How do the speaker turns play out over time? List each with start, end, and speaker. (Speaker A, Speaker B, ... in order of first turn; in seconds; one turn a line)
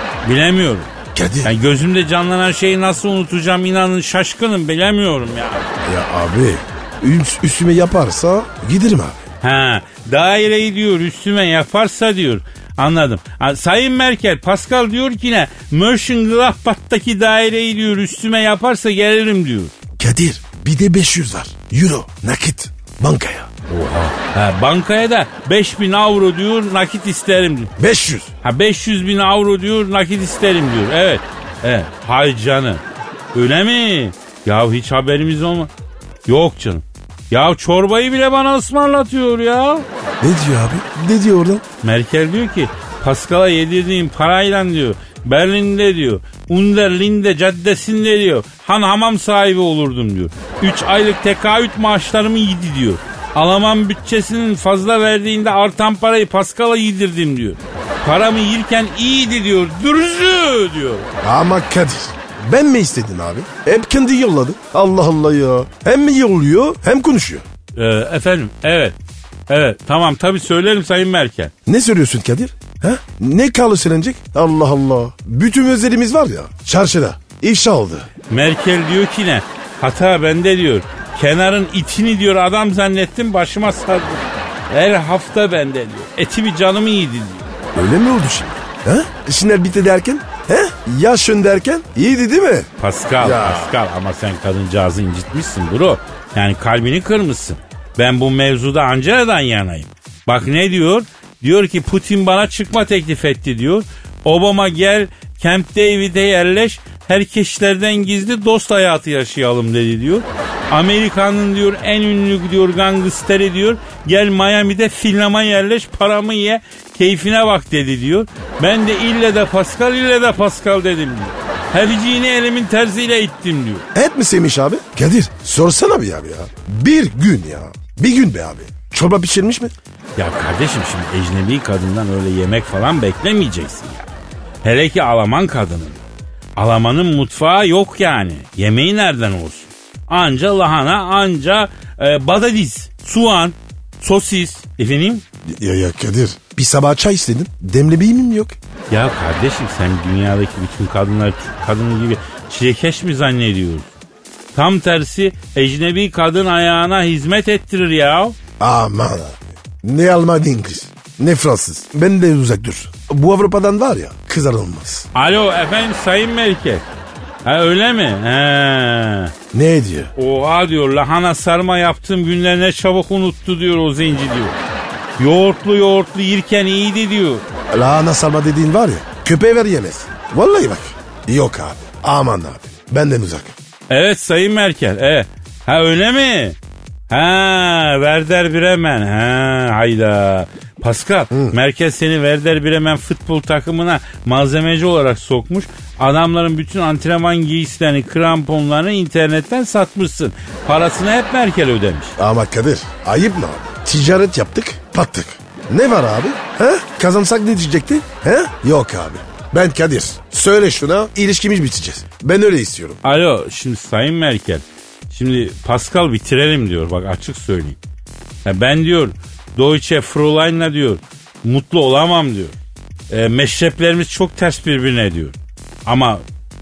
Speaker A: 0.2-0.9
Speaker B: 1.1-1.5
Speaker A: 1.4-5.7
Speaker B: 5.8-9.2
Speaker A: 9.4-19.7
Speaker B: 20.0-23.5
Speaker A: 23.7-27.7
Speaker B: 27.8-28.3
Speaker A: 28.4-32.8
Speaker A: 33.3-35.7
Speaker A: 36.3-39.9
Speaker B: 40.2-41.6
Speaker A: 41.8-61.1
Speaker B: 61.2-67.4
Speaker A: 67.7-69.0
Speaker A: 69.5-71.5
Speaker B: 71.7-78.1
Speaker A: 78.3-87.5
Speaker B: 87.7-92.7
Speaker A: 92.8-123.8
Speaker B: 93.2-93.8
Speaker B: 123.9-129.7
Speaker A: 130.2-134.1
Speaker A: 134.6-136.0
Speaker A: 136.6-145.2
Speaker B: 145.5-148.6
Speaker A: 148.9-153.9
Speaker A: 154.5-158.3
Speaker B: 158.6-165.1
Speaker A: 165.1-166.8
Speaker A: 167.4-169.3
Speaker B: 169.5-170.1
Speaker A: 170.2-174.6
Speaker A: 175.2-177.4
Speaker B: 177.7-183.5
Speaker A: 183.9-186.6
Speaker A: 187.1-202.1
Speaker B: 202.2-213.0
Speaker A: 213.0-217.8
Speaker A: 218.4-222.5
Speaker A: 223.1-226.2